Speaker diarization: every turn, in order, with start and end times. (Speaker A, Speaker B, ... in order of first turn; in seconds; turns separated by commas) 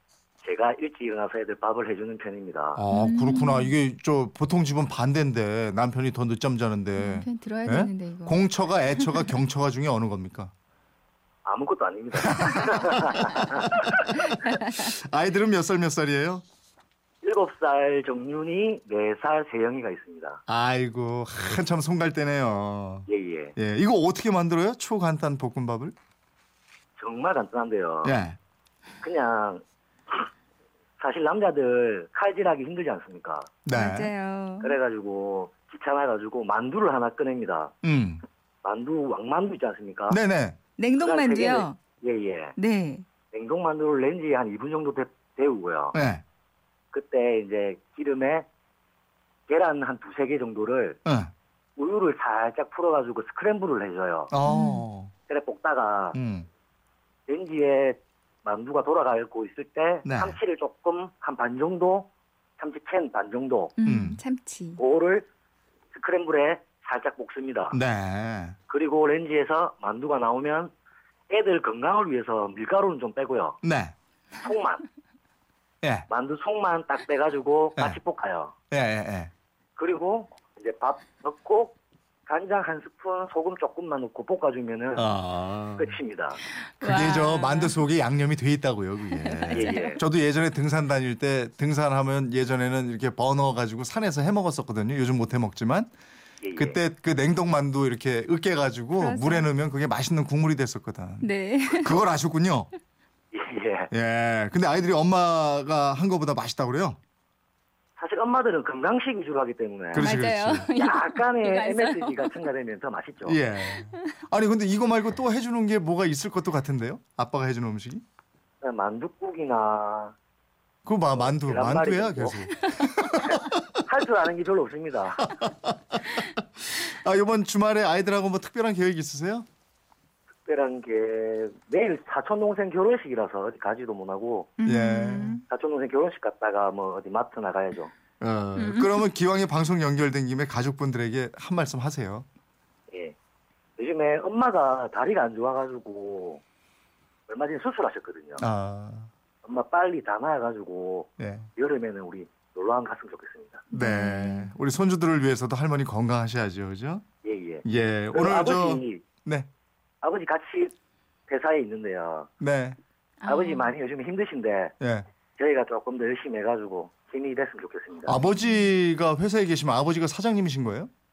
Speaker A: 0.4-2.8, Speaker B: 2.8-10.5, Speaker C: 2.9-3.8, Speaker C: 7.0-9.3, Speaker A: 11.4-13.8, Speaker B: 12.2-13.9, Speaker B: 14.4-16.4, Speaker A: 17.2-20.4, Speaker B: 20.5-25.9, Speaker A: 23.1-23.5, Speaker A: 27.0-28.1, Speaker B: 28.0-28.4, Speaker A: 29.0-30.3, Speaker A: 31.0-33.5, Speaker B: 33.6-34.1, Speaker C: 33.7-34.8, Speaker A: 34.6-37.7, Speaker B: 37.8-38.2, Speaker A: 38.6-40.2, Speaker B: 40.1-40.6, Speaker C: 40.8-41.8, Speaker A: 41.0-42.5, Speaker C: 42.5-43.0, Speaker A: 43.3-46.0, Speaker B: 45.9-46.2, Speaker A: 46.9-48.5, Speaker A: 49.5-51.0, Speaker B: 51.0-51.3, Speaker A: 51.8-54.3, Speaker B: 54.3-55.1, Speaker C: 54.4-54.8, Speaker A: 55.3-56.2, Speaker B: 56.1-56.5, Speaker A: 57.3-63.8, Speaker B: 60.0-60.4, Speaker C: 63.8-64.8, Speaker B: 63.8-64.2, Speaker A: 64.8-65.3, Speaker A: 65.9-67.8, Speaker B: 67.7-68.5, Speaker A: 68.7-70.7, Speaker A: 71.3-73.6, Speaker B: 73.6-73.9, Speaker A: 74.4-74.8, Speaker A: 76.1-78.5, Speaker B: 78.7-79.3, Speaker A: 79.8-81.8, Speaker A: 82.3-85.1, Speaker B: 85.0-86.0, Speaker A: 85.8-86.4, Speaker C: 86.5-87.8, Speaker B: 86.8-95.9, Speaker C: 89.1-90.0, Speaker A: 89.5-90.0, Speaker A: 96.4-96.8, Speaker B: 96.5-102.7, Speaker C: 99.0-99.5, Speaker C: 101.2-102.0, Speaker A: 103.3-103.9, Speaker B: 103.9-107.0, Speaker A: 108.0-110.1, Speaker B: 109.9-110.7, Speaker C: 109.9-112.4, Speaker A: 110.8-113.4, Speaker B: 113.2-118.0, Speaker C: 113.7-114.2, Speaker A: 118.6-120.1, Speaker B: 120.8-123.6, Speaker A: 121.1-122.3, Speaker A: 123.2-125.3, Speaker B: 125.3-129.4, Speaker A: 130.4-134.6, Speaker C: 134.6-135.4, Speaker B: 134.7-135.4, Speaker A: 135.5-137.9, Speaker B: 138.2-142.2, Speaker C: 138.6-139.0, Speaker A: 142.9-143.2, Speaker A: 143.8-146.4, Speaker A: 147.3-148.4, Speaker B: 148.4-149.1, Speaker A: 149.4-153.7, Speaker B: 151.2-151.5, Speaker C: 153.7-154.5, Speaker B: 153.7-157.0, Speaker A: 157.2-159.0, Speaker B: 157.6-159.5, Speaker A: 160.0-160.7, Speaker A: 161.3-162.3, Speaker B: 162.4-162.8, Speaker C: 163.2-163.7, Speaker A: 163.3-164.7, Speaker B: 164.8-165.0, Speaker A: 165.4-168.2, Speaker B: 168.1-170.9, Speaker C: 168.4-168.7